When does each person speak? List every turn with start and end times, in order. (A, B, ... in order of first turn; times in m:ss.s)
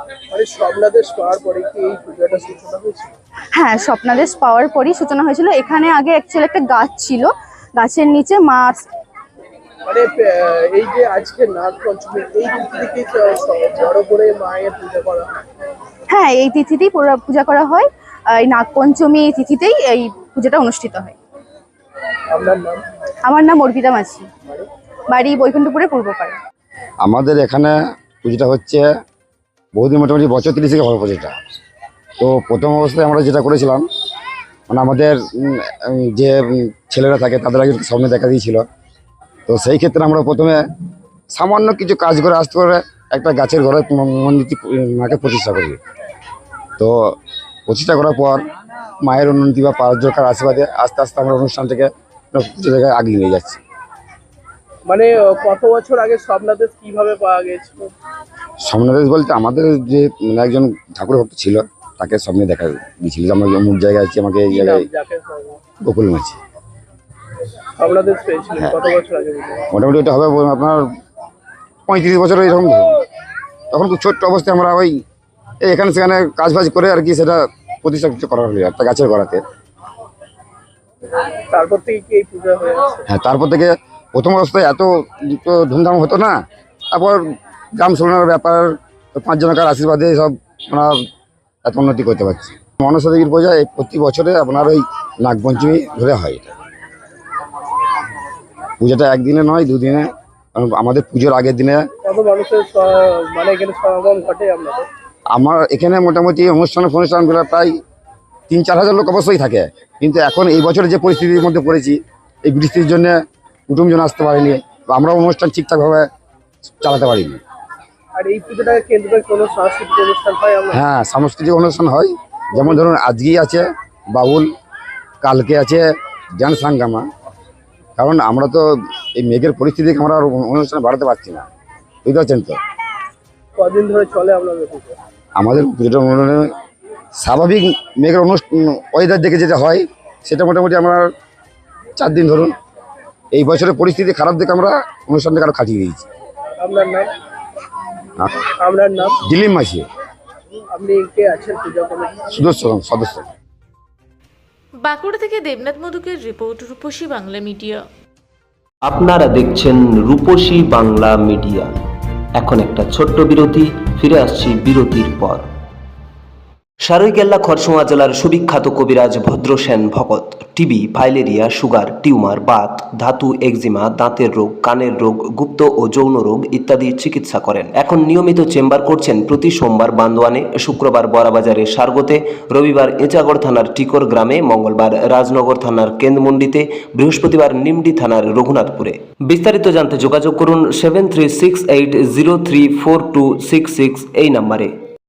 0:00.3-0:03.1 A
0:03.6-0:08.9 B
0:09.8-0:15.4 A
0:16.1-0:21.1 B
0:22.3-0:22.8 A
0:23.2-0:24.3 B
0:25.1-0:26.4 B
0:27.0-0:28.9 C
0:29.8-0:31.3 C
0:32.2-0:33.8 C
0:34.7-0:38.6 C
0:39.5-0:40.6 C
0:41.3-0:45.8 C
0:46.8-0:47.2 C
0:47.7-0:48.4 C
0:49.0-0:53.6 C
0:54.9-0:57.9 A
0:58.6-1:04.9 C
1:04.5-1:05.6 A
1:05.8-1:06.4 C
1:07.8-1:09.6 A
1:09.7-1:10.8 C
1:11.9-1:13.0 C
1:13.7-1:15.0 C
1:15.6-1:19.4 C
1:21.5-1:23.0 A
1:23.1-1:26.4 C
1:26.9-1:27.2 C
1:27.8-1:31.0 C
1:31.6-1:36.5 C
1:38.8-1:41.8 C
1:42.0-1:44.9 A
1:45.3-1:47.8 C
1:48.5-1:56.1 C
1:56.8-1:57.4 C
1:58.2-2:00.8 A
2:00.7-2:04.5 C
2:05.2-2:05.9 C
2:06.4-2:07.0 C
2:08.0-2:11.4 C
2:12.0-2:12.6 C
2:13.6-2:15.0 A
2:15.4-2:16.5 C
2:17.2-2:21.1 C
2:22.0-2:22.5 C
2:23.3-2:26.1 C
2:26.6-2:27.1 A
2:28.6-2:29.2 A
2:29.2-2:29.8 C
2:30.7-2:32.3 A
2:32.3-2:33.2 C
2:34.8-2:37.8 D
2:38.9-2:41.7 E
2:42.4-2:45.4 E
2:46.8-3:14.7 E